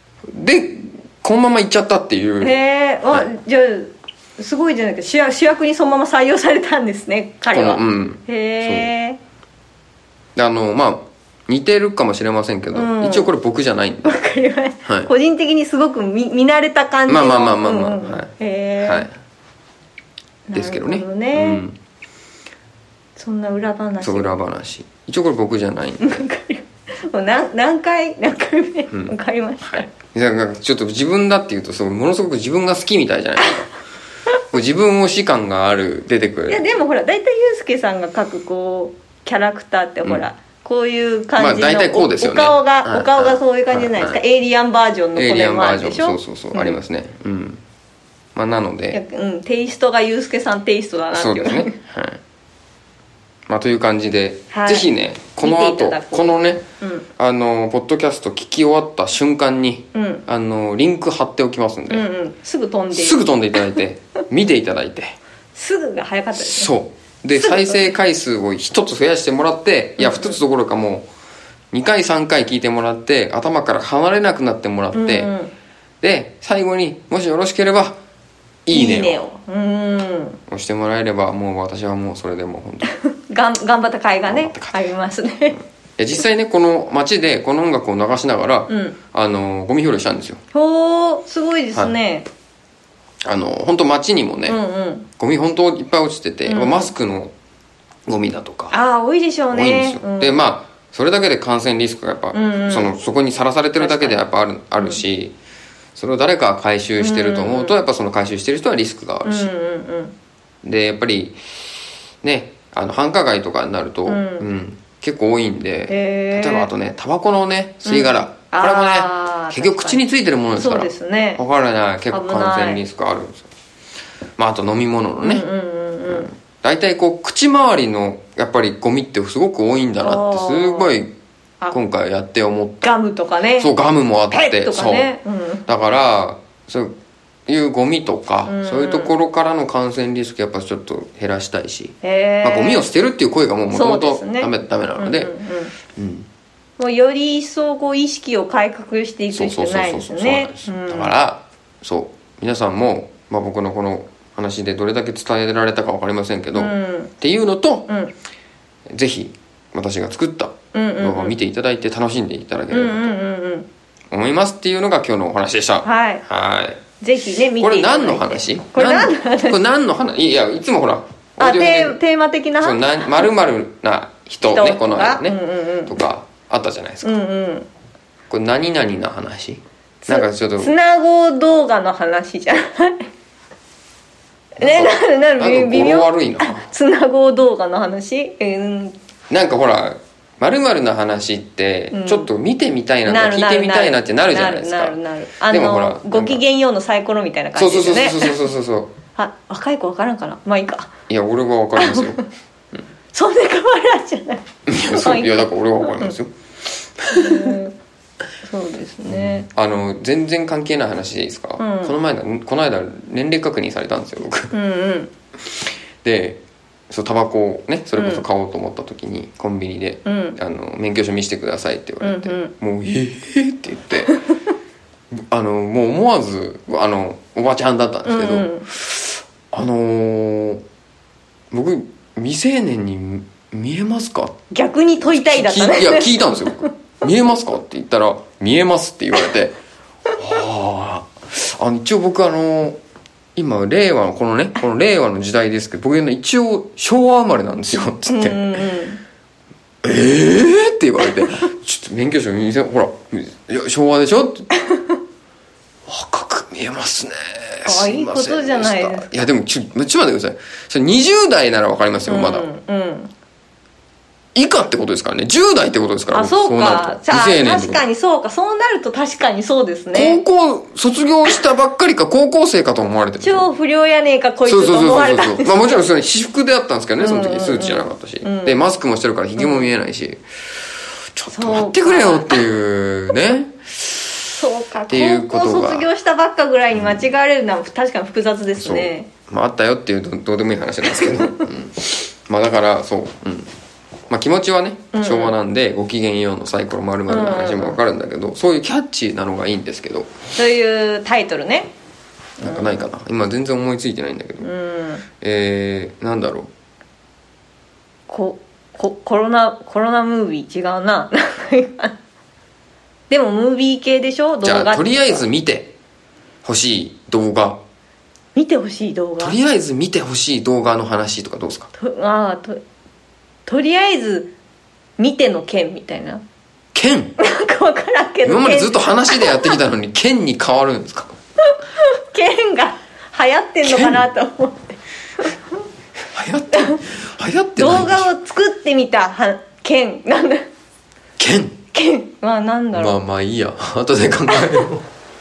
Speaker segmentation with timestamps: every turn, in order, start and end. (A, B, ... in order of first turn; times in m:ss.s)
0:00.3-0:02.6 A
0:02.4-0:09.2 B
0:07.5-0:08.9 A
0:10.4-0:14.2 A
0:12.7-0:13.3 B
0:14.0-0:19.1 B
0:17.1-0:19.1 A
0:20.5-0:21.6 B
0:20.5-0:21.8 A
0:23.2-0:24.4 B
0:24.0-0:26.2 A
0:26.0-0:29.9 B
0:28.9-0:33.7 A
0:34.5-0:36.6 A
0:36.5-0:46.8 B
0:41.4-0:44.2 A
0:45.2-0:47.6 A
0:48.4-0:49.0 A
0:48.9-0:51.8 B
0:51.1-0:52.2 A
0:53.5-0:56.7 A
0:54.5-0:57.0 B
0:57.2-1:02.1 A
0:59.9-1:00.2 B
1:01.9-1:03.8 B
1:02.9-1:05.2 A
1:05.6-1:06.7 B
1:06.4-1:11.1 A
1:07.4-1:07.8 B
1:10.0-1:10.4 B
1:11.7-1:15.3 A
1:14.9-1:15.5 B
1:16.0-1:18.0 A
1:18.6-1:19.2 A
1:18.7-1:20.4 B
1:20.5-1:22.9 A
1:22.8-1:25.6 B
1:24.3-1:24.8 A
1:26.0-1:30.4 A
1:28.7-1:29.0 B
1:30.5-1:32.3 B
1:33.2-1:34.6 A
1:34.5-1:35.1 B
1:35.2-1:37.3 A
1:36.5-1:36.9 B
1:38.1-1:38.8 A
1:38.7-1:40.4 B
1:39.5-1:45.3 A
1:42.3-1:43.0 B
1:43.8-1:44.2 B
1:46.0-1:49.5 A
1:47.0-1:47.8 B
1:49.2-1:50.1 B
1:50.6-1:51.4 A
1:52.2-2:03.5 A
1:54.1-1:54.5 B
1:55.9-1:56.7 B
1:57.9-2:00.0 B
2:00.5-2:01.4 B
2:02.1-2:02.8 B
2:04.4-2:05.5 A
2:05.2-2:06.3 B
2:06.1-2:11.1 A
2:10.0-2:11.0 B
2:11.7-2:12.9 A
2:12.8-2:13.7 B
2:13.6-2:15.1 A
2:14.3-2:15.7 B
2:15.7-2:16.9 A
2:17.5-2:25.3 A
2:18.4-2:19.1 B
2:22.0-2:22.9 B
2:23.7-2:25.7 B
2:25.9-2:26.3 A
2:26.8-2:31.1 B
2:29.3-2:37.9 A
2:36.6-2:37.1 B
2:38.9-2:43.2 A
2:40.7-2:41.3 B
2:42.7-2:43.7 B
2:44.1-2:46.8 A
2:45.8-2:46.2 B
2:47.0-2:49.6 B
2:47.4-2:52.0 A
2:51.4-2:53.3 B
2:52.6-2:57.2 A
2:54.5-2:56.0 B
2:57.0-2:57.7 B
2:58.3-3:00.7 A
3:00.0-3:03.1 B
3:04.6-3:09.0 B
3:04.6-3:06.6 A
3:09.3-3:15.0 A
3:11.9-3:12.3 B
3:13.1-3:18.4 B
3:15.5-3:16.4 A
3:17.6-3:18.9 A
3:19.2-3:20.9 B
3:21.1-3:22.2 A
3:21.8-3:22.2 B
3:23.1-3:26.1 B
3:24.7-3:26.3 A
3:27.0-3:27.6 A
3:27.1-3:27.8 B
3:28.4-3:29.5 B
3:29.1-3:34.5 A
3:31.6-3:32.0 B
3:34.5-3:35.1 B
3:36.0-3:44.2 A
3:38.0-3:38.2 B
3:40.0-3:40.4 B
3:42.0-3:42.5 B
3:45.1-3:50.6 A
3:48.1-3:48.7 B
3:51.5-3:54.4 A
3:54.5-3:56.7 B
3:55.0-3:59.6 A
4:00.2-4:02.8 A
4:03.4-4:08.7 A
4:08.1-4:09.0 B
4:09.8-4:14.5 A
4:15.9-4:22.5 A
4:17.6-4:19.1 B
4:22.1-4:23.1 B
4:24.3-4:27.8 A
4:26.1-4:30.2 B
4:29.9-4:33.5 A
4:33.2-4:35.8 B
4:34.4-4:40.2 A
4:37.0-4:38.6 B
4:39.4-4:39.7 B
4:41.2-4:44.3 A
4:41.3-4:42.6 B
4:44.3-4:49.1 B
4:44.9-4:45.9 A
4:46.8-4:47.0 A
4:48.6-4:53.5 A
4:51.0-4:51.4 B
4:54.1-5:00.1 A
4:54.9-4:55.4 B
4:57.1-4:57.8 B
5:00.4-5:01.7 B
5:02.4-5:04.5 A
5:02.4-5:02.8 B
5:04.4-5:05.0 B
5:05.2-5:06.5 A
5:08.1-5:12.0 B
5:13.1-5:15.2 B
5:14.4-5:15.7 A
5:16.4-5:17.6 A
5:18.4-5:19.4 B
5:19.2-5:21.7 A
5:21.8-5:22.6 B
5:23.5-5:24.3 B
5:25.0-5:26.2 B
5:26.7-5:27.2 A
5:27.2-5:29.6 B
5:28.2-5:31.1 A
5:31.5-5:35.3 B
5:33.6-5:34.1 A
5:36.1-5:38.1 A
5:36.5-5:36.8 B
5:37.6-5:40.5 B
5:41.2-5:41.6 A
5:41.7-5:43.0 B
5:42.7-5:44.9 A
5:44.3-5:44.7 B